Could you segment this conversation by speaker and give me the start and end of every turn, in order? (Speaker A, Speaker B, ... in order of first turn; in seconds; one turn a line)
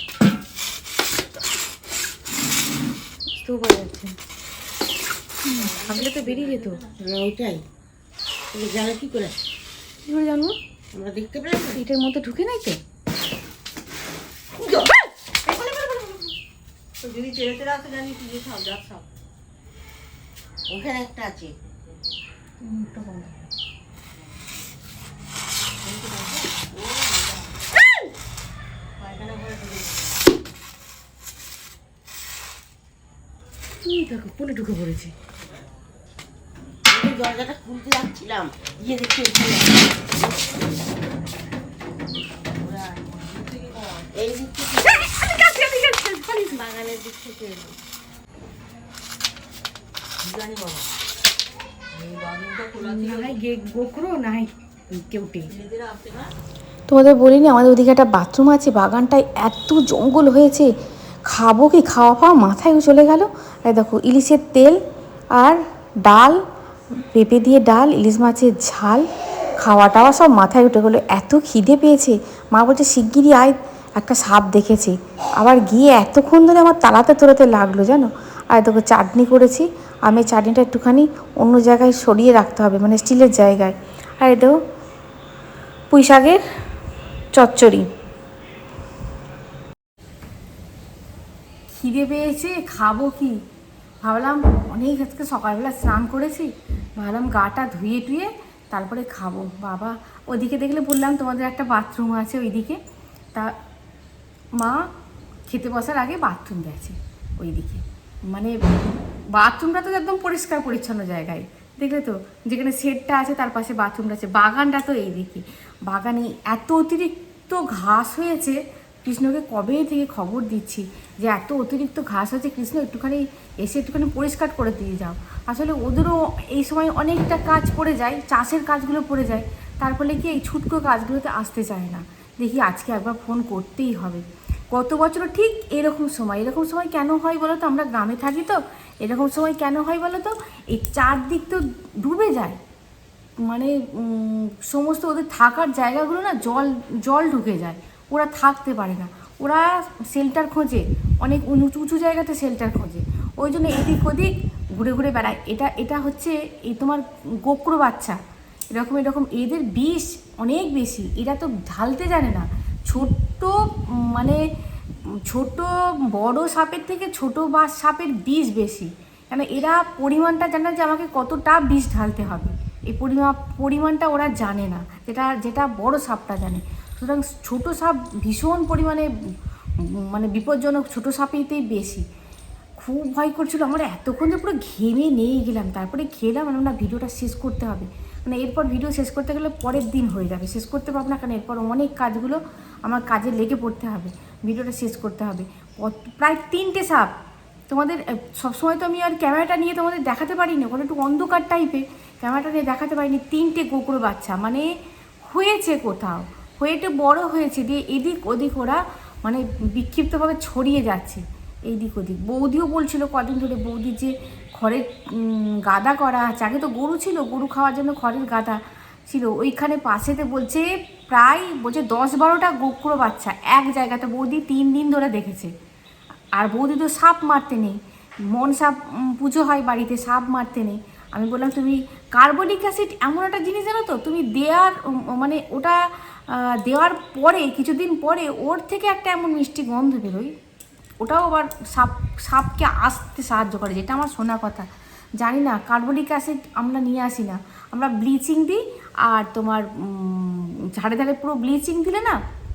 Speaker A: 3.3-4.2
Speaker A: 5.4-6.8
Speaker B: 5.5-7.6
Speaker B: 8.5-9.3
Speaker A: 10.1-10.6
Speaker B: 10.9-11.8
Speaker A: 11.7-12.8
Speaker B: 14.6-14.9
Speaker B: 15.5-16.0
Speaker A: 15.5-15.8
Speaker B: 17.0-19.1
Speaker B: 20.7-21.7
Speaker A: 22.6-23.4
Speaker B: 25.8-27.6
Speaker B: 29.0-30.2
Speaker A: 33.8-35.1
Speaker B: 36.9-40.8
Speaker B: 42.2-45.0
Speaker A: 45.0-46.6
Speaker B: 46.5-47.8
Speaker B: 50.2-50.9
Speaker B: 51.9-53.4
Speaker A: 52.8-55.5
Speaker B: 55.5-56.3
Speaker A: 56.9-60.7
Speaker A: 61.3-64.8
Speaker A: 65.4-66.4
Speaker A: 67.1-69.0
Speaker A: 69.6-84.5
Speaker A: 85.9-86.4
Speaker A: 87.3-87.8
Speaker A: 91.7-93.4
Speaker A: 94.0-102.8
Speaker A: 104.6-104.8
Speaker A: 105.5-108.6
Speaker A: 109.3-142.6
Speaker A: 143.4-158.2
Speaker A: 158.7-164.4
Speaker A: 165.1-179.1
Speaker A: 179.8-182.0
Speaker A: 182.8-197.1
Speaker A: 197.7-204.7
Speaker A: 205.3-225.5
Speaker A: 226.4-240.3
Speaker A: 241.0-244.7
Speaker A: 245.2-252.2